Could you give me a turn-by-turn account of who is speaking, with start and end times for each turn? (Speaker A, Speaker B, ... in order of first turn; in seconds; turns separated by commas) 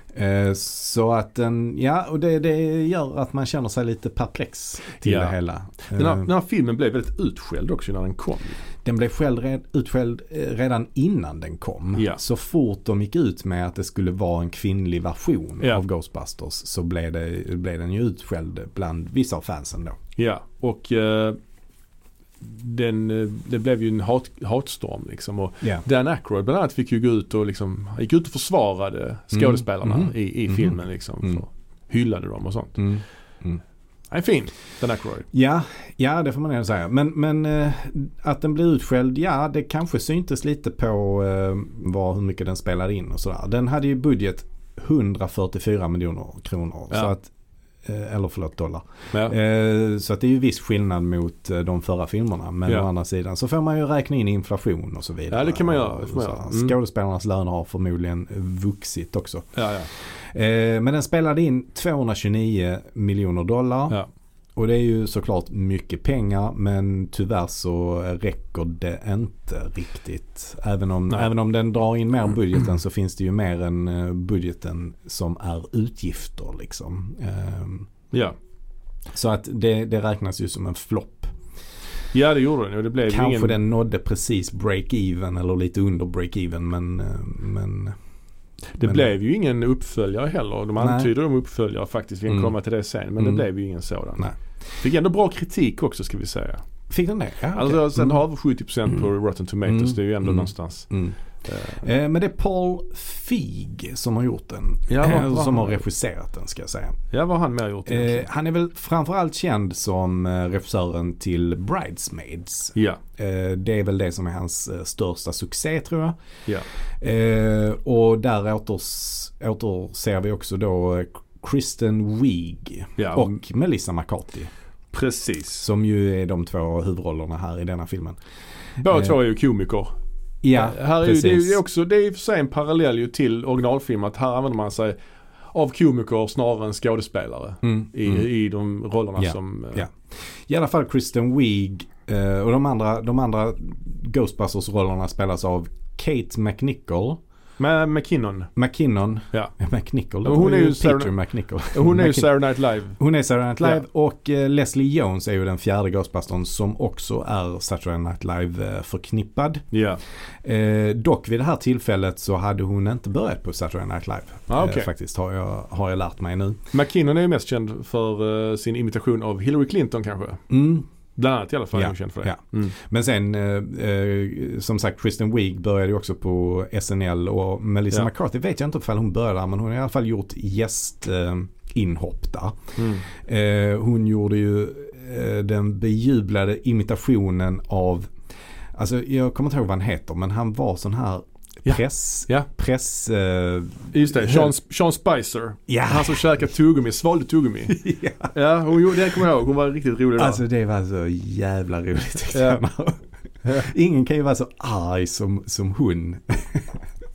Speaker A: 0.1-6.3, Speaker B: 5.0-5.4, Speaker B: 5.9-8.6, Speaker A: 8.8-20.0, Speaker B: 12.0-12.2, Speaker B: 20.2-21.4, Speaker B: 22.4-33.0, Speaker A: 29.3-31.4, Speaker A: 32.8-33.6, Speaker B: 34.1-35.3, Speaker A: 35.3-47.3, Speaker A: 47.8-64.0, Speaker B: 55.3-56.8, Speaker B: 59.5-59.9, Speaker A: 64.6-77.9, Speaker B: 78.1-78.4, Speaker A: 79.1-81.3, Speaker B: 82.1-83.6, Speaker A: 83.1-88.0, Speaker B: 88.8-96.6, Speaker A: 88.8-89.1, Speaker A: 90.8-91.1, Speaker A: 93.2-93.5, Speaker A: 96.9-98.2, Speaker B: 97.5-100.9, Speaker A: 99.7-101.2, Speaker B: 101.4-101.8, Speaker A: 101.7-107.0, Speaker B: 104.9-105.8, Speaker B: 107.1-108.3, Speaker A: 107.9-116.2, Speaker B: 112.8-113.0, Speaker A: 117.0-124.5, Speaker B: 123.0-123.4, Speaker B: 124.9-125.7, Speaker A: 125.6-128.2, Speaker B: 128.8-129.9, Speaker A: 128.9-129.1, Speaker A: 130.4-131.6, Speaker B: 130.5-135.0, Speaker B: 135.5-139.9, Speaker A: 137.6-138.2, Speaker A: 139.2-147.2, Speaker B: 147.6-148.5, Speaker A: 148.6-159.7, Speaker B: 150.2-151.2, Speaker B: 151.7-153.0, Speaker B: 159.7-160.0, Speaker A: 160.4-166.6, Speaker B: 164.5-164.9, Speaker B: 166.7-170.4, Speaker A: 170.5-170.9, Speaker B: 171.2-172.7, Speaker A: 171.7-188.1, Speaker B: 182.8-183.1, Speaker A: 188.7-194.5, Speaker B: 191.7-192.5, Speaker B: 193.9-200.4, Speaker A: 195.7-196.3, Speaker A: 197.7-198.3, Speaker A: 200.2-206.8, Speaker B: 202.3-202.6